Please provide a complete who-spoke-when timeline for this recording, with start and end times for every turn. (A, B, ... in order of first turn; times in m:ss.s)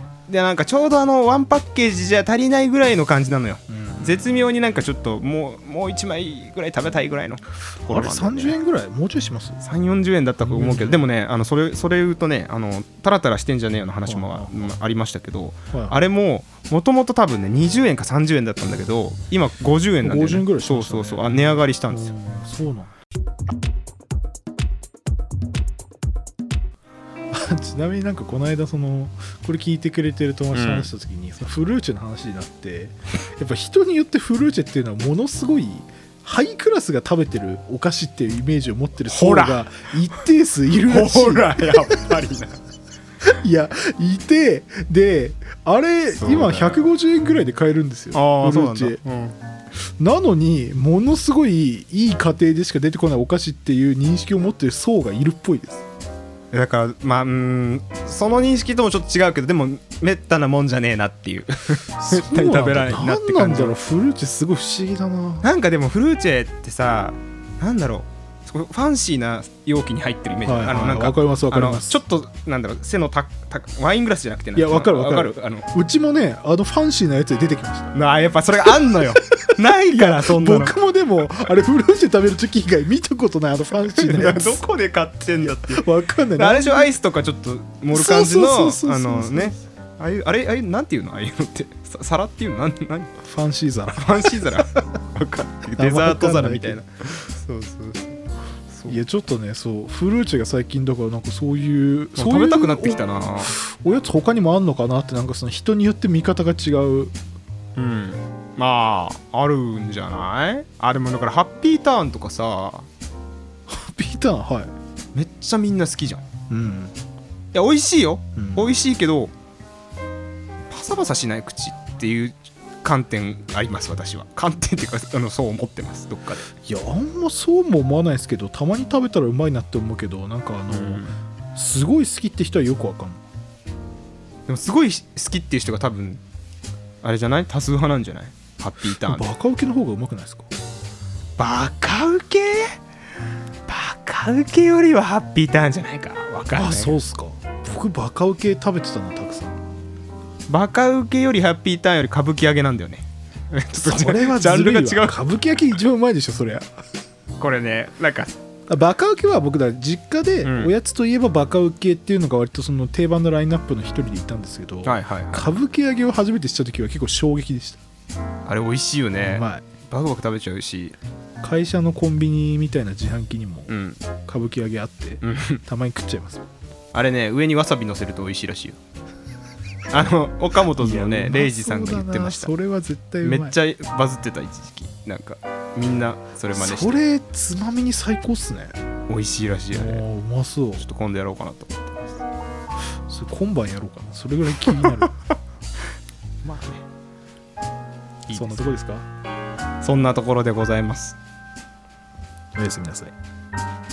0:00.3-0:08.6 A
0:03.7-0:04.5 B
0:07.9-0:09.6 B
0:09.6-0:22.1 A
0:10.4-0:11.0 B
0:14.0-0:14.8 B
0:15.7-0:16.0 B
0:20.0-0:22.9 B
0:27.3-0:42.0 B
0:30.5-0:30.9 A
0:39.1-0:39.6 A
0:40.8-0:42.6 A
0:43.3-0:49.0 B
0:46.1-0:46.9 A
0:48.1-0:49.4 A
0:50.0-0:55.8 B
0:56.5-1:03.8 A
1:02.0-1:05.5 B
1:05.4-1:15.7 A
1:10.4-1:12.0 B
1:14.6-1:18.0 B
1:17.9-1:20.8 A
1:19.4-1:24.6 B
1:23.9-1:33.1 A
1:25.4-1:26.9 B
1:27.9-1:29.6 B
1:33.2-1:34.8 B
1:34.0-1:38.2 A
1:35.8-1:36.8 B
1:38.7-1:39.0 A
1:38.9-1:47.1 B
1:42.2-1:43.5 A
1:47.8-1:52.9 A
1:53.7-1:54.7 B
1:55.1-1:56.2 A
1:56.5-1:56.9 B
1:57.5-1:59.3 A
1:58.4-1:58.8 B
2:00.7-2:06.5 A
2:06.6-2:13.2 B
2:10.7-2:11.2 A
2:14.5-2:16.2 A
2:17.0-2:19.3 A
2:19.0-2:20.5 B
2:21.4-2:22.8 A
2:23.7-2:27.0 A
2:26.5-2:29.6 B
2:30.5-2:35.2 A
2:33.8-2:36.8 B
2:37.4-2:38.3 A
2:38.7-2:47.8 B
2:40.4-2:40.7 A
2:44.8-2:45.6 A
2:48.5-2:51.0 A
2:49.2-2:49.6 B
2:51.4-2:53.7 B
2:53.7-2:54.0 A
2:54.2-2:56.4 B
2:55.2-2:55.6 A
2:56.9-2:58.8 A
2:59.9-3:02.5 A
3:00.8-3:03.6 B
3:03.2-3:07.0 A
3:06.5-3:08.8 B
3:09.1-3:10.0 A
3:09.7-3:10.9 B
3:10.8-3:12.2 A
3:13.1-3:15.1 B
3:16.4-3:16.8 A
3:18.3-3:18.6 A
3:18.3-3:19.1 B
3:19.8-3:21.2 A
3:22.6-3:23.1 B